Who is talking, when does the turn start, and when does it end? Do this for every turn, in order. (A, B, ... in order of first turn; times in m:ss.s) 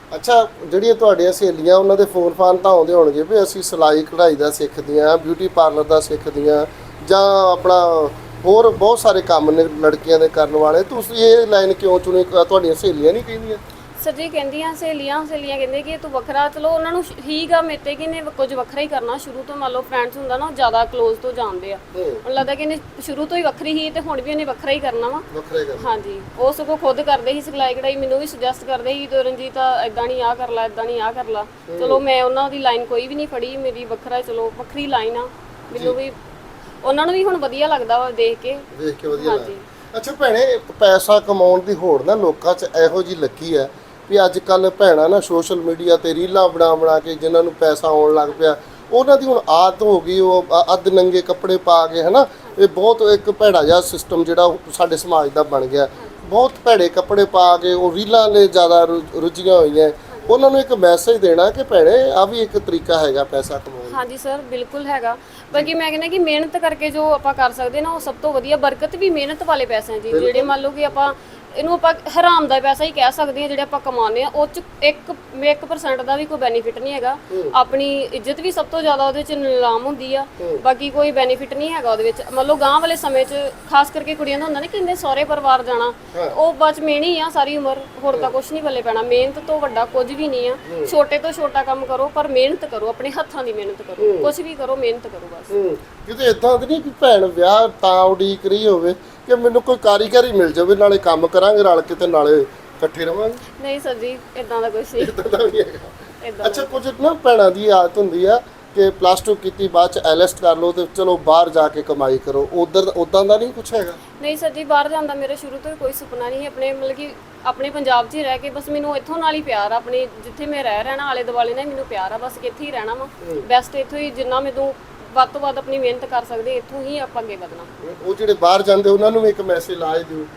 0:00.1-0:13.6 A
0:14.0-0:36.2 B
0:21.9-0:22.2 A
0:25.3-0:26.0 A
0:31.7-0:32.0 A
0:36.8-0:39.6 B
0:38.7-1:04.0 A
0:56.0-0:56.2 B
1:00.1-1:00.4 B
1:03.9-1:35.5 B
1:10.1-1:10.5 A
1:17.3-1:17.5 A
1:30.6-1:30.9 A
1:34.0-1:34.3 A
1:35.5-1:43.4 A
1:43.6-1:45.1 B
1:45.0-1:54.0 A
1:46.2-1:46.8 B
1:54.2-2:07.7 B
2:07.8-2:10.3 A